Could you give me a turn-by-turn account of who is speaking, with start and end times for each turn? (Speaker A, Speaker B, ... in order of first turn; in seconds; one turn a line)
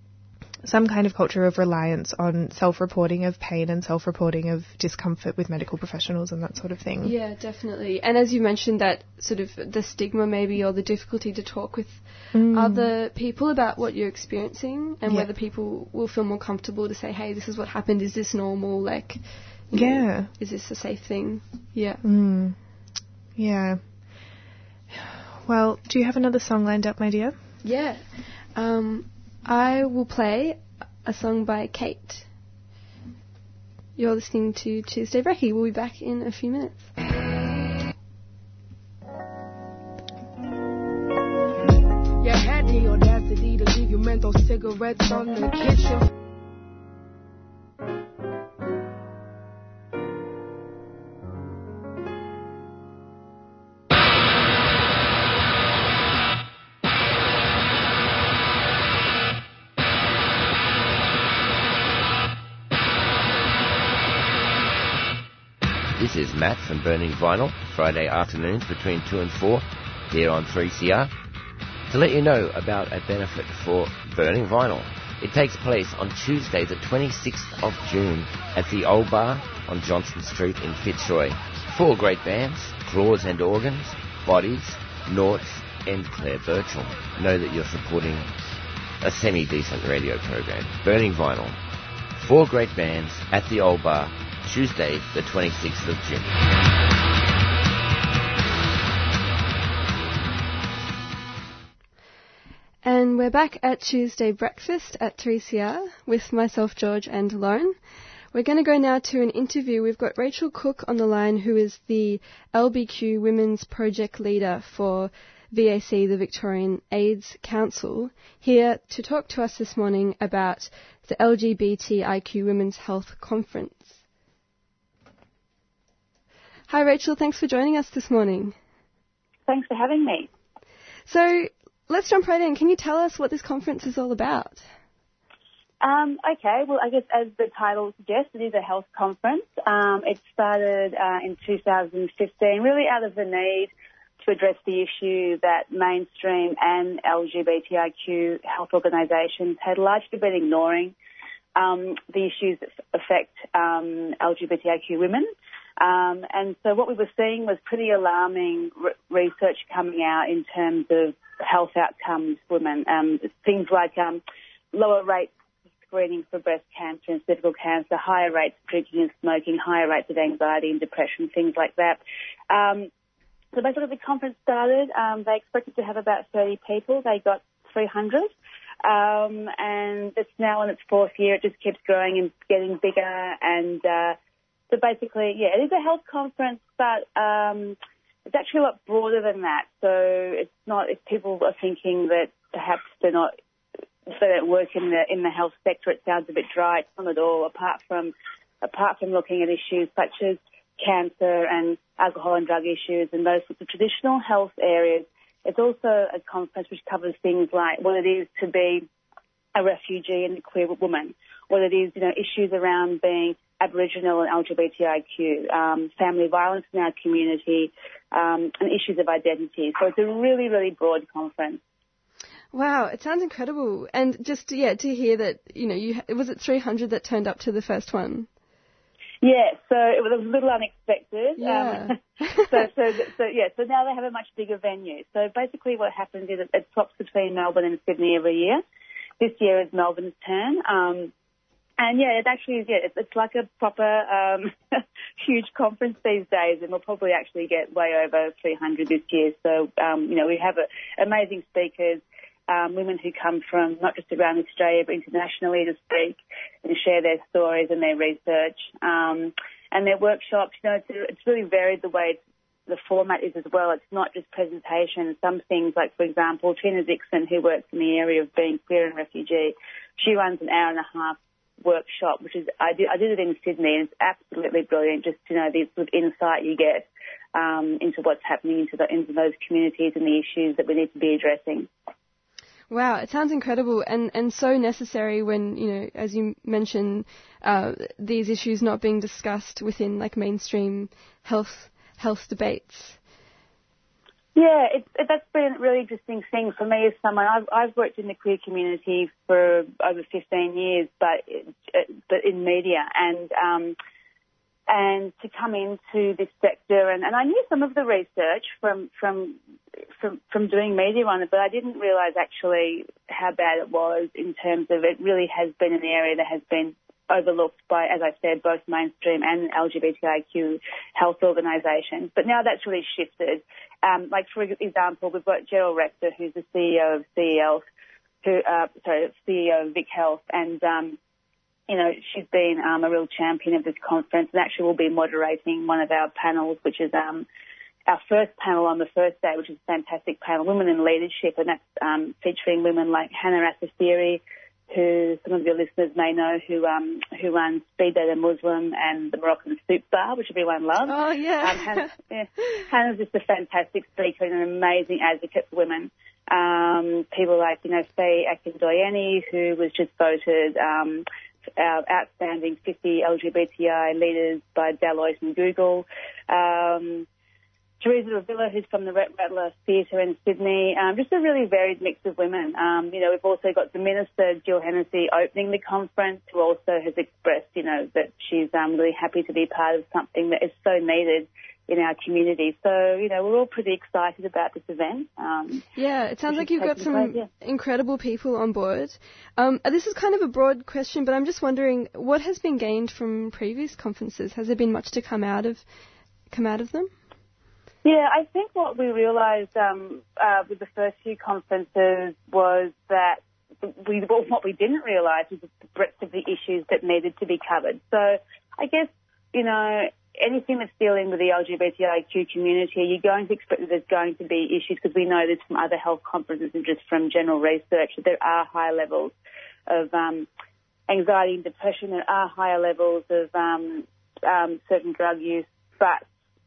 Speaker A: 0.6-7.1
Speaker B: 7.0-22.0
Speaker A: 12.3-12.9
Speaker A: 19.7-20.3
Speaker A: 22.0-22.6
Speaker A: 23.4-23.8
Speaker A: 24.9-27.4
Speaker B: 27.6-32.3
Speaker B: 34.0-36.9
Speaker C: 42.2-46.1
Speaker D: 66.0-71.1
Speaker D: 71.9-88.5
Speaker D: 89.0-91.6
Speaker D: 92.1-96.3
Speaker B: 102.8-107.8
Speaker B: 108.3-124.0
Speaker B: 126.7-128.6
Speaker E: 129.5-130.3
Speaker B: 131.1-134.7
Speaker E: 135.8-143.7
Speaker E: 144.2-150.9
Speaker E: 151.6-155.3
Speaker E: 155.8-164.2
Speaker E: 164.7-165.3
Speaker E: 165.9-172.0
Speaker E: 172.5-172.9
Speaker E: 173.5-178.3
Speaker E: 178.8-184.2
Speaker E: 184.7-187.8
Speaker E: 188.3-193.3
Speaker E: 194.1-208.9
Speaker E: 209.5-221.6
Speaker B: 222.5-228.3
Speaker E: 229.2-238.6
Speaker B: 231.4-232.7
Speaker E: 239.2-241.1
Speaker E: 241.8-281.7
Speaker B: 282.7-293.0
Speaker E: 294.3-303.7
Speaker E: 304.7-309.4
Speaker E: 310.0-327.6
Speaker E: 328.2-331.0
Speaker E: 331.7-337.2
Speaker E: 337.9-361.0
Speaker B: 350.8-351.9
Speaker E: 361.6-367.1
Speaker E: 367.8-385.6
Speaker B: 385.8-395.6
Speaker E: 386.3-387.3
Speaker B: 396.3-396.9
Speaker E: 397.8-419.1
Speaker E: 419.7-420.3
Speaker E: 420.9-426.0